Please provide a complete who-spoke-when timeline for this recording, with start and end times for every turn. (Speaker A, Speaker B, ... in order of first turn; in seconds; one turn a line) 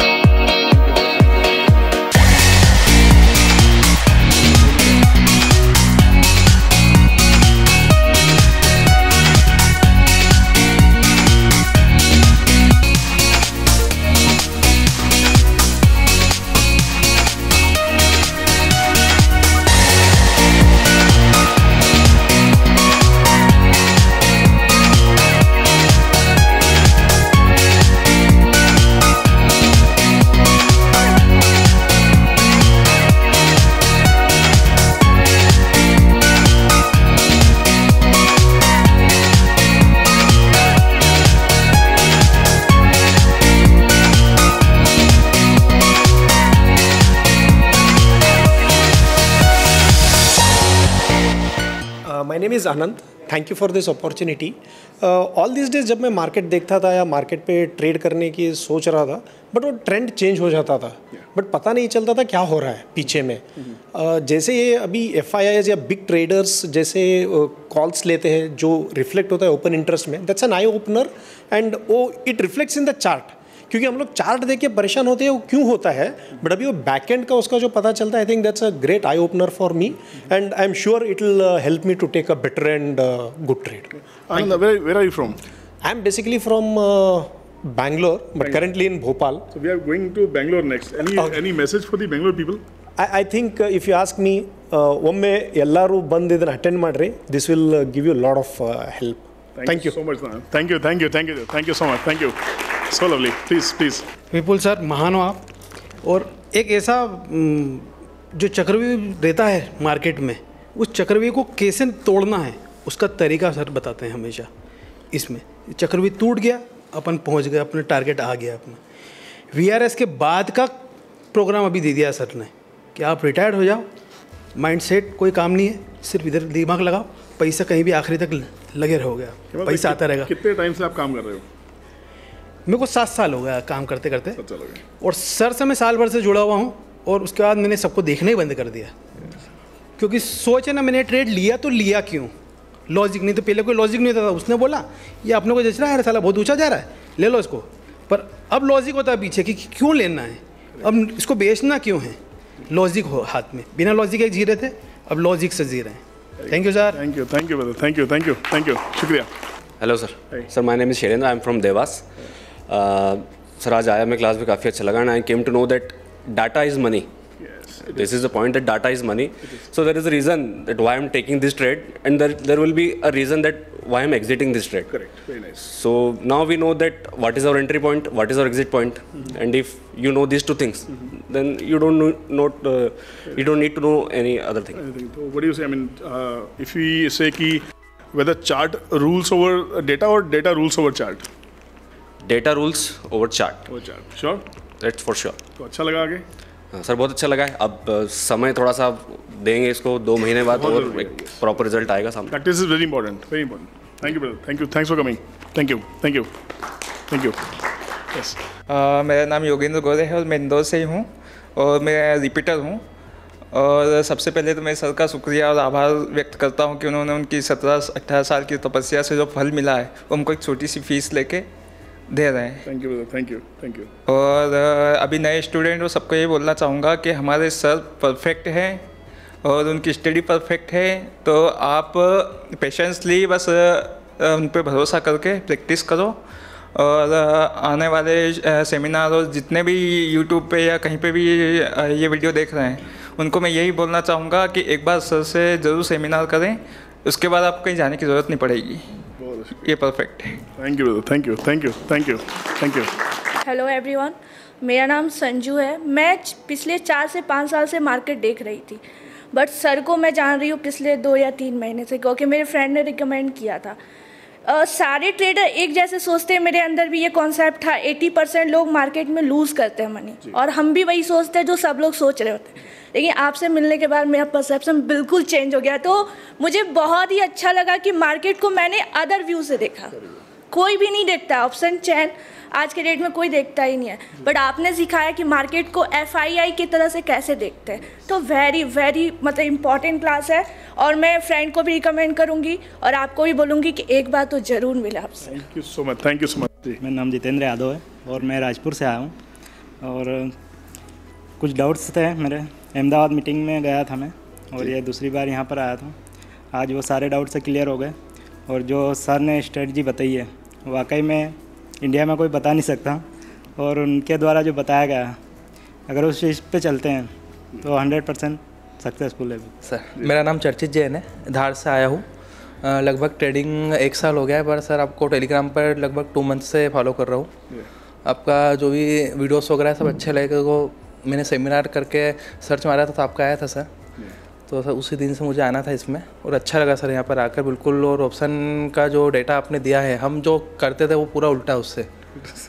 Speaker A: 0.7-1.9
Speaker A: 4.7-4.9
Speaker B: 52.0-83.9
Speaker A: 84.3-85.4
Speaker B: 85.8-89.5
Speaker A: 88.4-88.7
Speaker A: 89.5-92.6
Speaker B: 91.2-91.4
Speaker B: 93.0-99.9
Speaker A: 99.5-104.1
Speaker C: 104.3-105.5
Speaker C: 106.0-114.5
Speaker C: 115.1-118.8
Speaker C: 119.5-123.9
Speaker C: 124.5-130.3
Speaker A: 129.5-131.5
Speaker C: 132.7-134.4
Speaker A: 134.4-134.8
Speaker C: 135.0-138.9
Speaker C: 140.0-142.3
Speaker C: 142.9-157.0
Speaker A: 156.4-159.3
Speaker D: 159.8-162.1
Speaker D: 162.7-167.1
Speaker A: 167.4-168.2
Speaker D: 167.8-174.9
Speaker A: 174.9-175.7
Speaker D: 175.6-184.8
Speaker A: 184.7-191.3
Speaker D: 192.2-193.7
Speaker A: 193.7-194.5
Speaker D: 194.8-195.4
Speaker A: 195.6-196.3
Speaker D: 196.7-202.4
Speaker A: 200.5-201.4
Speaker A: 202.3-206.3
Speaker A: 207.1-207.4
Speaker A: 208.1-208.4
Speaker E: 208.7-212.8
Speaker E: 213.5-221.5
Speaker E: 222.1-222.7
Speaker A: 222.7-223.9
Speaker E: 224.1-228.8
Speaker E: 229.4-236.2
Speaker E: 236.8-248.8
Speaker A: 249.2-249.7
Speaker E: 249.6-250.4
Speaker A: 250.6-252.9
Speaker F: 253.4-263.8
Speaker F: 264.4-280.0
Speaker A: 279.9-280.2
Speaker F: 280.5-295.4
Speaker A: 295.2-296.8
Speaker G: 296.8-299.1
Speaker G: 299.8-300.3
Speaker G: 301.4-305.9
Speaker G: 306.5-308.0
Speaker G: 308.5-313.1
Speaker G: 313.6-315.2
Speaker G: 315.9-317.1
Speaker G: 317.6-319.5
Speaker H: 319.6-322.1
Speaker H: 322.6-327.3
Speaker H: 328.0-333.7
Speaker H: 334.5-341.9